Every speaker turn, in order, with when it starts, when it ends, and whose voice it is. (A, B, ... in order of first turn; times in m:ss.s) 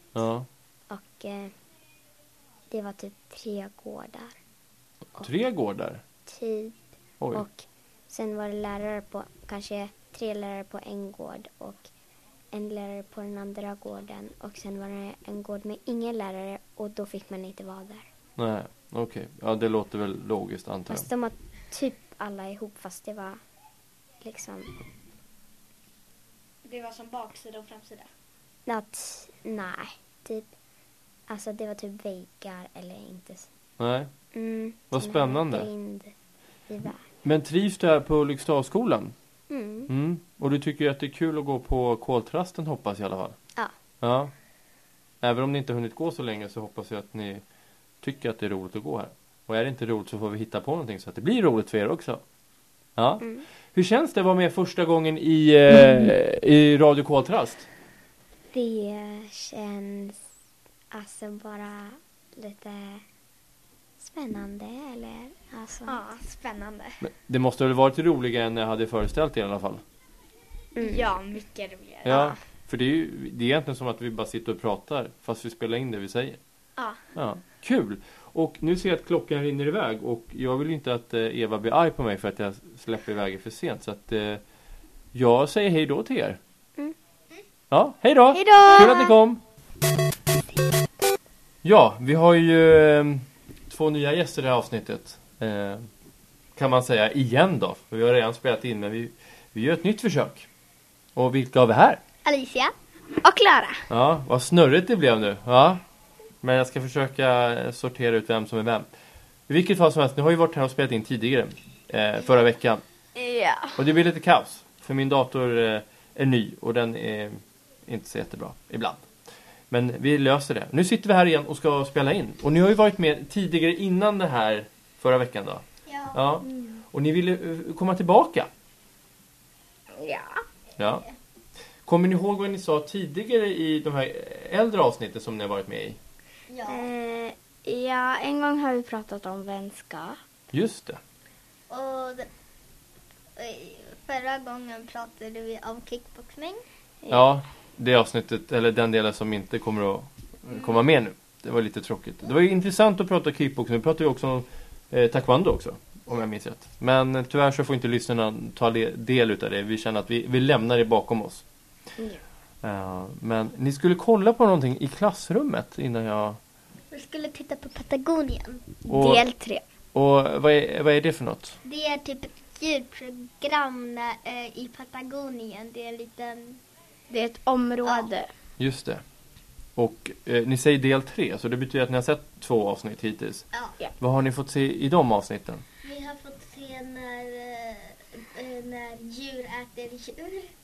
0:00.1-0:00.5 A
0:00.9-0:01.5 B
0:02.7-0:04.4 B
0:05.2-0:06.0 A
0:06.2-0:06.8 B
0:07.3-0:11.9 B
0:12.5-0:18.0 B
0:18.4-0:21.1 A
0:20.9-0:23.4 B
0:24.2-0:24.8 B
0:26.6-0:28.1 C
0:28.7-0:30.5 B
0:31.3-0:33.5 B
0:33.8-0:34.1 A
0:34.3-0:36.1 B
0:34.9-0:35.7 A
0:36.7-0:37.0 B
0:37.2-0:39.1 A
0:39.5-0:39.9 B
0:39.9-0:43.4 A
0:44.0-0:44.3 A
0:45.2-0:47.4 A
0:48.0-0:52.2 A
0:53.0-0:57.7 A
0:58.5-1:00.2 B
1:00.9-1:03.0 B
1:04.0-1:06.0 B
1:05.9-1:07.0 C
1:07.0-1:09.8 A
1:10.8-1:11.1 B
1:10.8-1:12.4 C
1:12.0-1:16.4 A
1:17.1-1:24.4 A
1:25.1-1:26.4 A
1:27.7-1:29.4 A
1:31.6-1:35.9 A
1:36.6-1:40.5 A
1:41.2-1:42.0 A
1:42.2-1:42.7 D
1:43.9-1:45.8 A
1:46.4-1:48.9 A
1:49.5-1:52.8 A
1:53.8-1:59.1 A
1:59.7-2:08.5 A
2:05.9-2:06.2 D
2:06.4-2:06.8 E
2:09.9-2:10.4 E
2:10.8-2:11.0 A
2:11.9-2:16.0 A
2:16.5-2:16.9 D
2:16.6-2:20.2 E
2:20.5-2:21.0 A
2:21.7-2:22.3 D
2:23.4-2:26.6 D
2:27.1-2:41.4 A
2:42.6-2:46.4 A
2:46.9-2:48.7 D
2:48.9-2:49.3 A
2:49.0-2:49.6 E
2:49.9-2:51.6 A
2:51.6-2:56.6 D
2:57.1-2:58.3 E
2:58.6-2:59.0 A
2:59.8-3:03.4 A
3:04.0-3:05.6 A
3:05.8-3:10.5 D